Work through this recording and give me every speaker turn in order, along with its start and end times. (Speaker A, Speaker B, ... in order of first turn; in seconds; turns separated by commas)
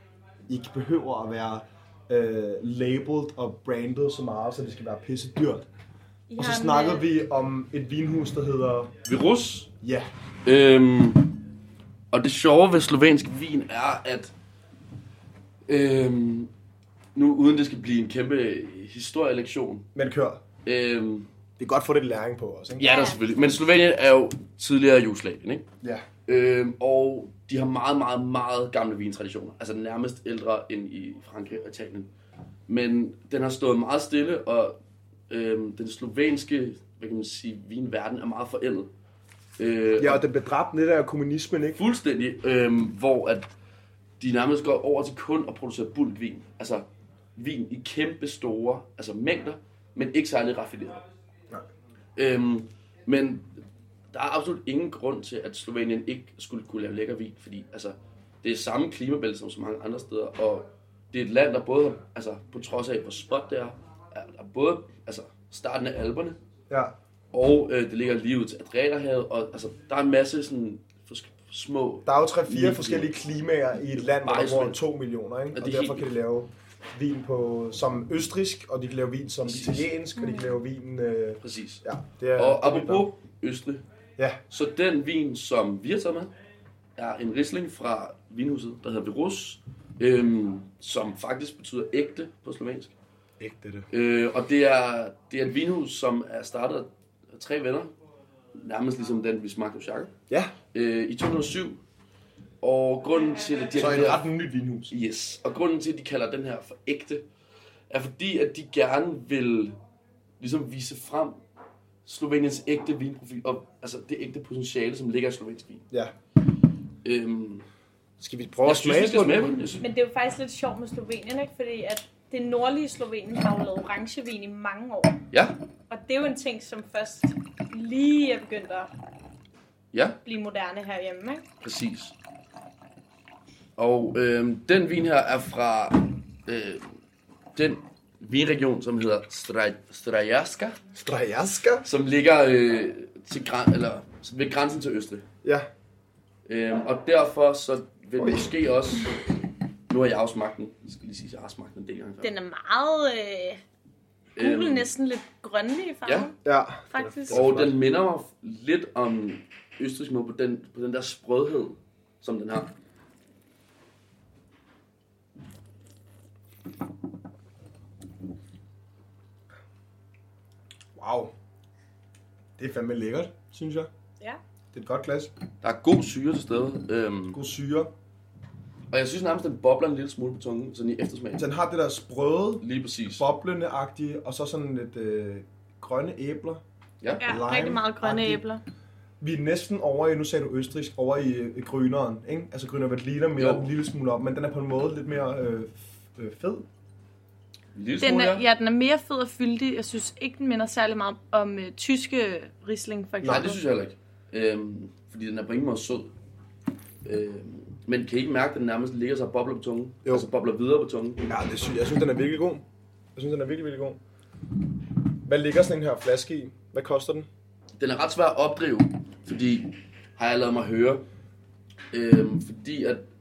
Speaker A: 0.5-5.7, Speaker B: 6.3-7.1, Speaker A: 6.4-8.9, Speaker C: 9.1-9.7, Speaker A: 9.8-10.1, Speaker C: 10.4-11.3, Speaker C: 12.1-14.3, Speaker C: 15.7-16.5, Speaker C: 17.1-19.9, Speaker A: 19.9-20.4, Speaker C: 20.6-21.3, Speaker A: 21.6-22.9, Speaker C: 22.8-25.7, Speaker B: 22.8-23.3, Speaker C: 26.3-32.1, Speaker C: 32.7-34.8, Speaker C: 35.3-38.9, Speaker C: 39.6-40.2, Speaker A: 40.0-41.8, Speaker C: 41.8-43.5, Speaker C: 44.2-51.0, Speaker C: 52.2-66.4, Speaker A: 66.7-67.0, Speaker C: 67.3-73.1, Speaker A: 72.0-83.1, Speaker C: 74.2-74.8, Speaker C: 75.5-76.1, Speaker C: 79.5-79.9, Speaker B: 80.2-80.6, Speaker C: 81.4-81.8, Speaker C: 82.4-83.8, Speaker C: 84.5-86.3, Speaker C: 87.0-92.9, Speaker A: 93.4-93.9, Speaker C: 93.9-97.9, Speaker C: 98.5-100.1, Speaker C: 100.7-101.8, Speaker C: 102.6-104.3, Speaker A: 103.7-104.9, Speaker C: 104.9-107.2, Speaker C: 107.9-109.8, Speaker C: 110.4-111.4, Speaker C: 112.0-115.8, Speaker C: 117.0-117.7, Speaker A: 118.2-119.6, Speaker C: 118.6-119.9, Speaker B: 119.8-125.2, Speaker C: 125.3-125.6, Speaker B: 125.9-128.9, Speaker C: 129.9-130.2, Speaker B: 130.2-131.4, Speaker C: 131.6-132.1, Speaker C: 133.8-136.9, Speaker C: 137.6-140.8, Speaker A: 140.9-141.9, Speaker C: 141.8-145.2, Speaker A: 145.4-145.7, Speaker C: 146.5-149.3, Speaker A: 148.2-148.5, Speaker C: 149.9-152.3, Speaker B: 152.2-153.6, Speaker C: 154.4-154.9, Speaker B: 154.4-156.4, Speaker A: 156.4-157.8, Speaker B: 156.9-157.4, Speaker C: 157.3-162.7, Speaker A: 171.0-171.3, Speaker A: 172.6-173.9, Speaker A: 174.7-175.3, Speaker C: 175.6-177.4, Speaker A: 177.3-177.9, Speaker C: 178.9-181.5, Speaker A: 181.4-186.6, Speaker C: 182.6-183.2, Speaker B: 187.2-188.6, Speaker A: 187.2-188.4, Speaker A: 189.2-196.7, Speaker C: 193.4-193.7, Speaker C: 197.7-198.5, Speaker B: 198.0-203.6, Speaker C: 203.2-206.1, Speaker C: 207.1-211.2, Speaker A: 211.2-212.7, Speaker A: 213.2-214.0, Speaker A: 215.2-217.3, Speaker C: 217.8-221.1, Speaker C: 221.9-223.1